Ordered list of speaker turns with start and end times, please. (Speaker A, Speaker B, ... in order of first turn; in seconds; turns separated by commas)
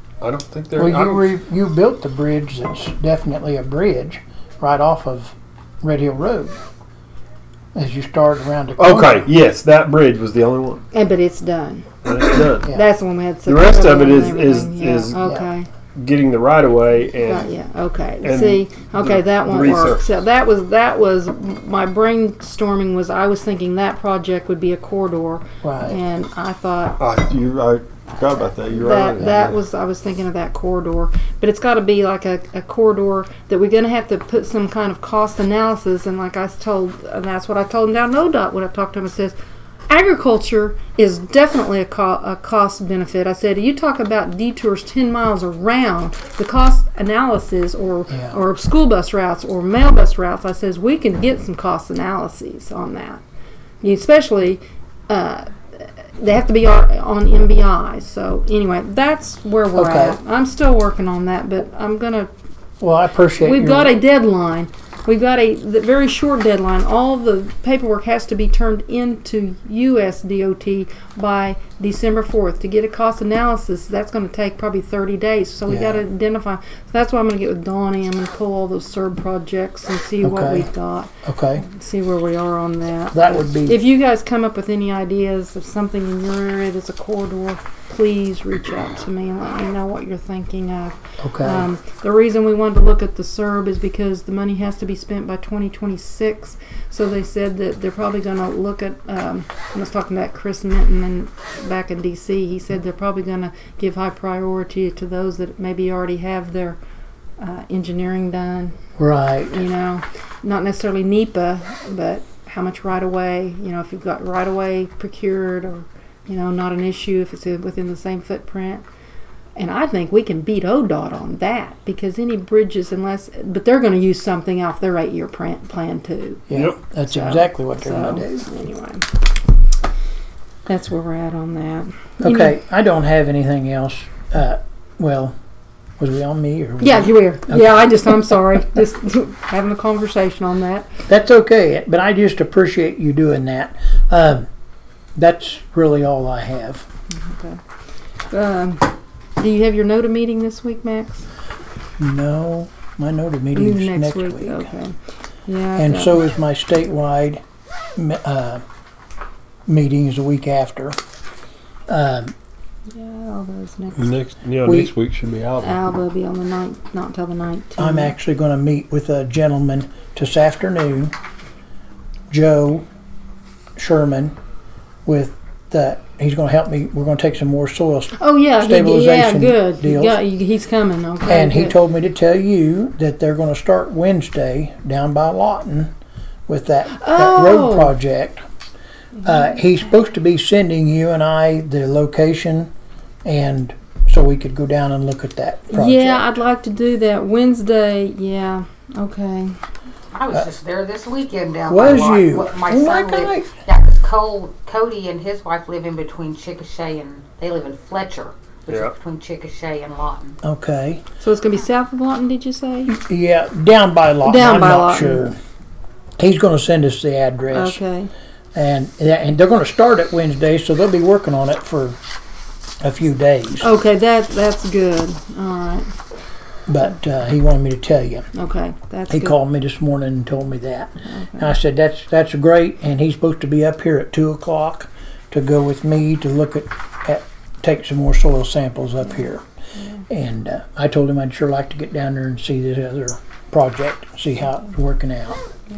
Speaker A: 0.2-1.3, Speaker B: 0.8-6.6, Speaker B: 7.7-9.3, Speaker A: 8.8-10.8, Speaker C: 10.9-11.9, Speaker A: 12.0-12.7, Speaker C: 12.7-15.7, Speaker A: 13.4-15.3, Speaker A: 15.9-17.5, Speaker C: 17.2-27.0, Speaker A: 18.2-20.2, Speaker B: 25.6-26.0, Speaker A: 27.0-29.6, Speaker C: 28.7-39.4, Speaker C: 39.9-53.2, Speaker B: 48.1-48.4, Speaker C: 53.8-62.3, Speaker B: 59.7-60.2, Speaker B: 62.8-64.0, Speaker C: 63.4-106.8, Speaker B: 75.7-76.0, Speaker B: 80.2-80.7, Speaker B: 81.2-81.7, Speaker B: 83.1-83.8, Speaker B: 91.2-91.7, Speaker C: 107.4-108.8, Speaker B: 109.0-109.6, Speaker C: 109.5-118.8, Speaker C: 119.5-126.5, Speaker B: 126.5-128.5, Speaker C: 127.1-129.1, Speaker C: 130.7-132.5, Speaker B: 132.2-135.3, Speaker B: 136.0-138.4, Speaker C: 136.8-140.9, Speaker B: 141.1-144.5, Speaker B: 145.2-146.8, Speaker C: 147.1-147.6, Speaker C: 148.3-151.3, Speaker B: 152.0-154.7, Speaker C: 153.5-156.2, Speaker B: 155.8-157.4, Speaker B: 158.0-158.6, Speaker B: 159.7-161.0, Speaker B: 161.9-162.3, Speaker C: 162.9-164.2, Speaker A: 164.0-165.8, Speaker B: 164.6-164.9, Speaker C: 165.6-168.2, Speaker B: 167.8-171.2, Speaker B: 172.3-172.9, Speaker B: 173.8-174.4, Speaker B: 175.1-180.2, Speaker C: 178.2-181.8, Speaker B: 181.3-185.9, Speaker B: 186.5-188.4, Speaker C: 186.9-187.9, Speaker C: 189.2-189.6, Speaker B: 189.2-192.7, Speaker B: 193.2-196.3, Speaker C: 195.7-199.6, Speaker D: 200.1-210.4, Speaker B: 201.7-203.5, Speaker A: 208.7-208.9, Speaker B: 210.4-211.0, Speaker C: 211.2-213.0, Speaker B: 212.9-215.4, Speaker C: 214.2-215.3, Speaker B: 216.2-217.8, Speaker C: 217.5-218.1, Speaker B: 218.5-222.0, Speaker B: 222.8-223.7, Speaker C: 223.6-225.9, Speaker B: 226.7-228.3, Speaker C: 228.3-229.3, Speaker B: 229.1-239.4, Speaker C: 231.1-231.5, Speaker B: 240.1-245.4